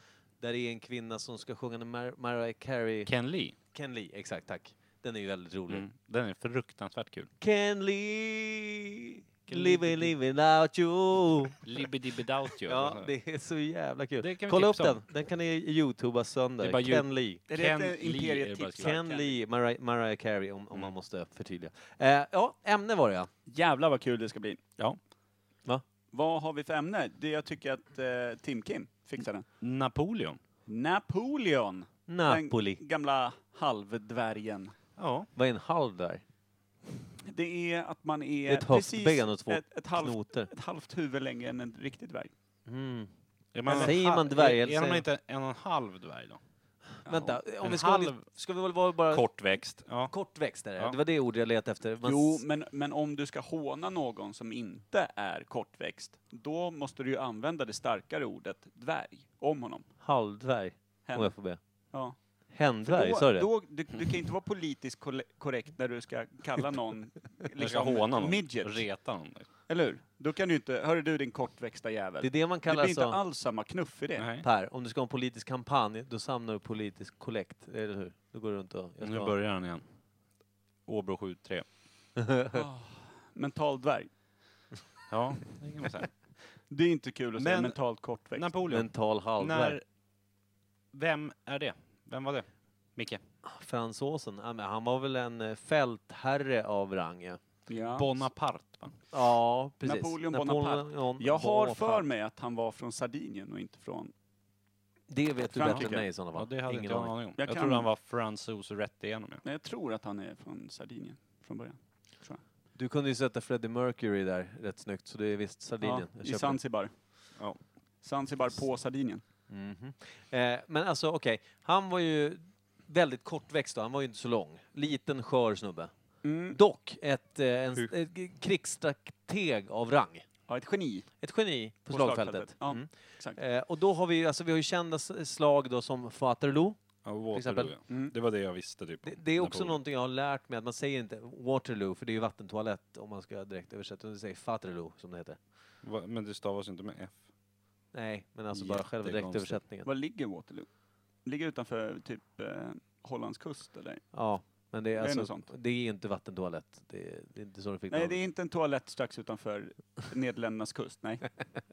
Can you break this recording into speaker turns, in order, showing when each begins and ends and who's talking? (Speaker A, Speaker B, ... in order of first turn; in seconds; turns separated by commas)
Speaker A: 0.4-3.1, Speaker B: 3.1-3.5, Speaker A: 3.7-5.8, Speaker B: 5.7-7.3, Speaker A: 7.4-11.6, Speaker B: 9.5-10.1, Speaker B: 11.6-13.1, Speaker A: 12.6-17.4, Speaker B: 14.2-15.0, Speaker B: 16.6-19.0, Speaker C: 17.5-19.4, Speaker A: 18.8-23.3, Speaker C: 23.5-24.6, Speaker C: 26.1-29.5, Speaker B: 29.6-30.4, Speaker C: 30.7-34.7, Speaker A: 32.1-32.8, Speaker B: 35.0-35.3, Speaker A: 35.4-36.2, Speaker C: 37.3-42.3, Speaker A: 38.5-40.5, Speaker A: 42.7-43.1, Speaker B: 43.5-46.4, Speaker C: 43.7-43.9, Speaker A: 43.7-45.0, Speaker C: 47.1-47.4, Speaker A: 47.1-49.3, Speaker B: 47.6-48.3, Speaker B: 49.1-50.1, Speaker A: 50.1-52.4, Speaker C: 52.0-59.9, Speaker A: 60.0-61.6, Speaker C: 61.1-61.3, Speaker A: 62.5-63.5, Speaker C: 62.8-68.8, Speaker B: 67.6-69.5, Speaker C: 69.7-74.3, Speaker A: 72.2-73.2, Speaker B: 74.2-74.5, Speaker A: 74.4-79.3, Speaker B: 79.0-79.8, Speaker B: 80.9-81.7, Speaker A: 82.2-82.6, Speaker C: 82.5-84.1, Speaker B: 85.1-86.1, Speaker C: 86.7-88.5, Speaker B: 87.4-87.8, Speaker B: 88.3-89.8, Speaker A: 88.7-89.8, Speaker B: 90.9-93.2, Speaker A: 93.5-97.4, Speaker C: 97.7-98.2, Speaker B: 98.0-99.0, Speaker A: 99.1-102.0, Speaker C: 99.8-104.1, Speaker A: 105.1-107.1, Speaker C: 105.5-106.1, Speaker B: 105.7-109.4, Speaker C: 107.4-107.9, Speaker C: 109.4-112.4, Speaker A: 112.8-116.6, Speaker C: 115.8-116.9, Speaker C: 118.0-119.2, Speaker A: 119.5-125.9, Speaker C: 126.2-126.6, Speaker A: 126.5-130.2, Speaker C: 130.5-131.1, Speaker A: 131.2-136.8, Speaker C: 131.9-133.4, Speaker B: 137.1-139.8, Speaker A: 137.3-137.7, Speaker A: 139.0-145.4, Speaker B: 145.8-147.2, Speaker A: 147.9-149.9, Speaker B: 148.5-149.6, Speaker C: 149.8-150.7, Speaker C: 151.2-154.0, Speaker A: 154.1-158.2, Speaker C: 154.9-155.5, Speaker C: 157.9-161.2